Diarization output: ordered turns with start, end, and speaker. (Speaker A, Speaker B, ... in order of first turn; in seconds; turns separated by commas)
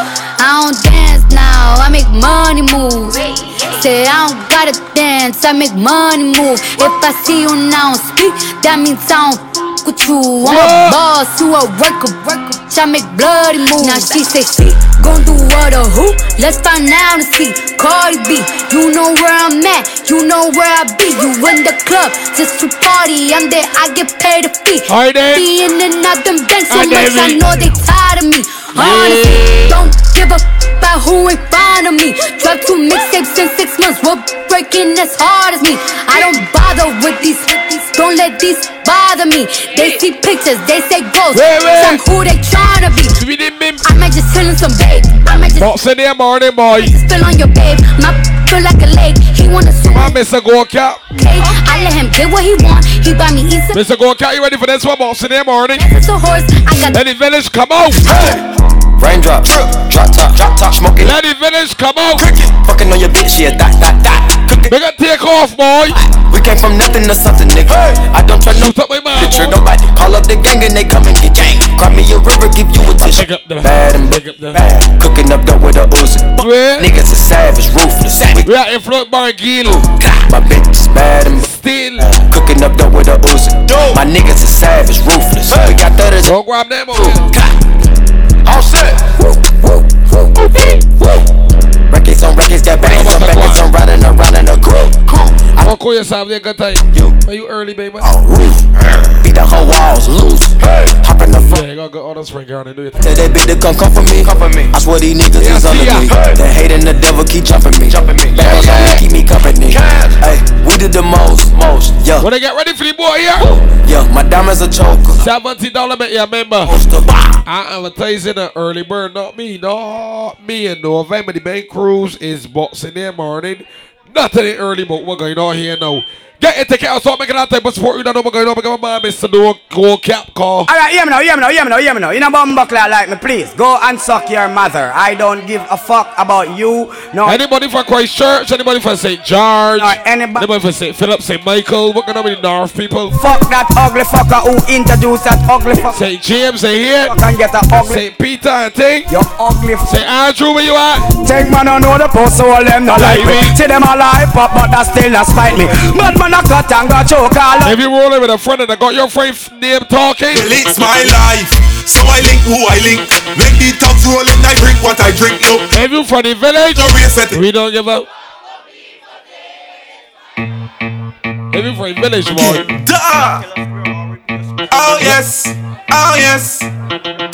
Speaker A: 0.4-43.2, Speaker B: 10.4-11.0, Speaker B: 24.9-25.4, Speaker B: 26.7-27.4, Speaker B: 28.8-29.7, Speaker B: 41.3-42.0, Speaker B: 43.2-43.9, Speaker A: 43.8-45.7, Speaker B: 45.6-47.0, Speaker A: 46.8-50.2, Speaker B: 49.9-51.0, Speaker A: 51.1-53.8, Speaker B: 53.7-55.9, Speaker A: 55.8-57.0, Speaker B: 56.9-58.3, Speaker C: 59.0-61.1, Speaker B: 61.0-62.3, Speaker C: 62.1-64.7, Speaker B: 64.7-66.0, Speaker C: 66.3-78.5, Speaker B: 68.5-69.6, Speaker B: 73.0-74.6, Speaker B: 76.4-76.9, Speaker B: 78.4-79.9, Speaker C: 79.8-81.5, Speaker B: 81.3-82.1, Speaker C: 82.0-86.3, Speaker D: 83.7-84.0, Speaker B: 86.2-87.2, Speaker C: 87.0-87.5, Speaker C: 88.5-89.8, Speaker C: 91.9-95.0, Speaker B: 92.8-93.7, Speaker B: 95.6-98.1, Speaker C: 98.0-98.6, Speaker C: 99.2-101.6, Speaker B: 101.5-103.2, Speaker C: 103.0-112.3, Speaker B: 105.4-106.2, Speaker B: 112.2-113.5, Speaker C: 113.8-115.2, Speaker B: 115.2-116.8, Speaker C: 116.7-117.2, Speaker B: 117.5-130.7, Speaker E: 130.7-137.4, Speaker B: 137.2-143.2, Speaker E: 139.8-140.5, Speaker E: 143.2-146.0, Speaker B: 145.9-147.2, Speaker E: 147.1-148.0, Speaker B: 147.8-149.1, Speaker E: 149.1-149.9, Speaker B: 149.8-151.1, Speaker E: 151.2-157.7, Speaker B: 152.9-153.6, Speaker B: 157.6-161.0, Speaker D: 160.3-165.7, Speaker B: 165.7-168.1, Speaker D: 166.8-167.4, Speaker B: 171.5-172.7, Speaker D: 172.3-173.4, Speaker D: 174.7-176.7, Speaker B: 174.9-175.2